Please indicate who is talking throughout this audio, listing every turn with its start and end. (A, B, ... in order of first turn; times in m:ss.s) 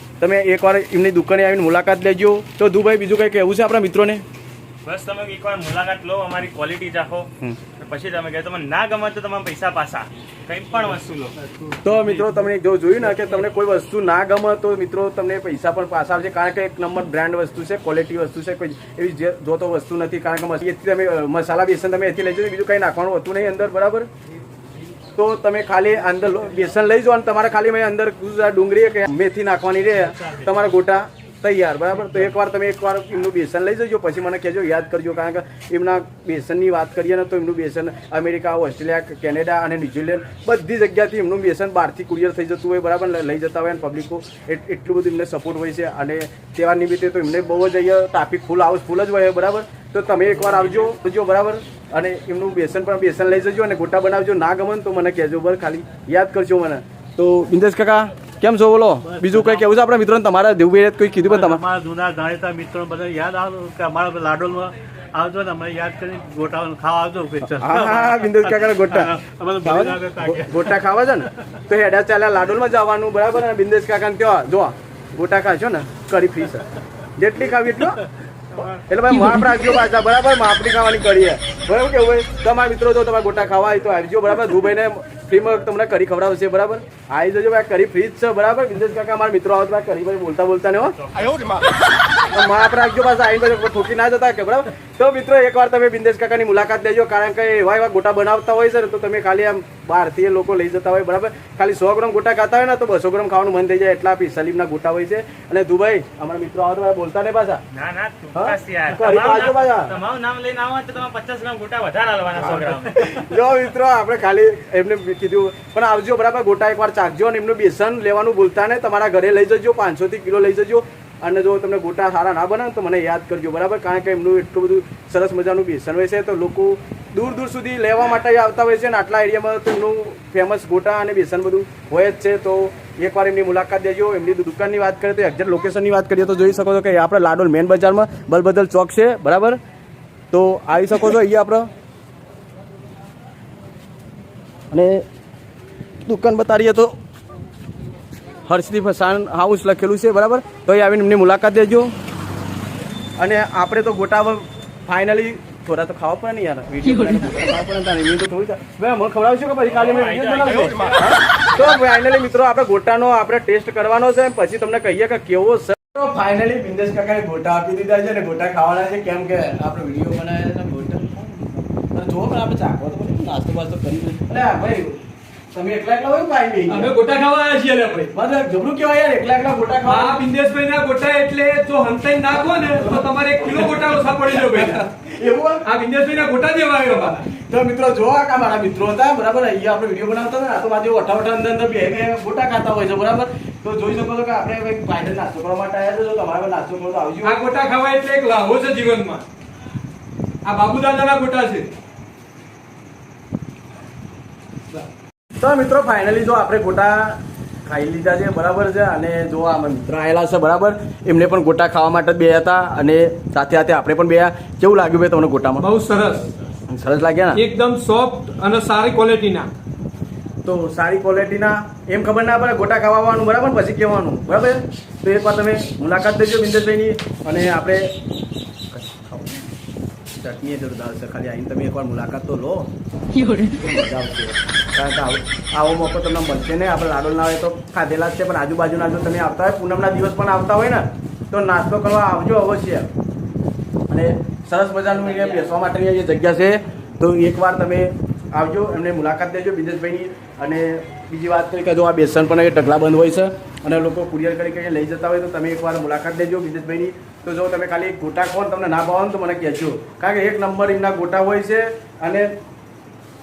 0:00.2-0:04.2 A
0:04.8-0:11.3 B
0:11.8-0:24.1 A
0:25.2-1:01.6 A
0:59.0-0:59.6 C
1:01.2-1:10.6 C
1:07.5-1:16.6 A
1:17.2-1:18.0 A
1:18.6-1:30.9 A
1:30.9-1:31.6 B
1:32.3-1:47.6 A
1:47.7-1:53.2 B
1:48.3-1:49.9 A
1:52.5-2:19.6 A
2:20.3-2:21.7 A
2:24.7-2:25.0 A
2:26.0-2:26.9 A
2:28.5-2:31.9 A
2:33.2-2:55.0 A
2:39.7-2:41.1 B
2:55.5-2:56.9 A
2:56.7-2:58.1 D
2:58.1-3:00.2 A
2:59.8-3:04.9 D
3:04.6-3:05.6 A
3:05.6-3:07.2 D
3:07.3-3:17.4 A
3:17.2-3:19.2 D
3:20.4-3:21.7 D
3:25.4-3:35.6 A
3:35.6-3:36.3 D
3:36.7-3:37.4 A
3:37.3-3:39.5 D
3:40.4-3:47.9 A
3:48.7-3:49.5 A
3:50.2-3:52.7 A
3:53.3-4:02.9 A
4:03.9-4:22.3 A
4:05.1-4:05.5 B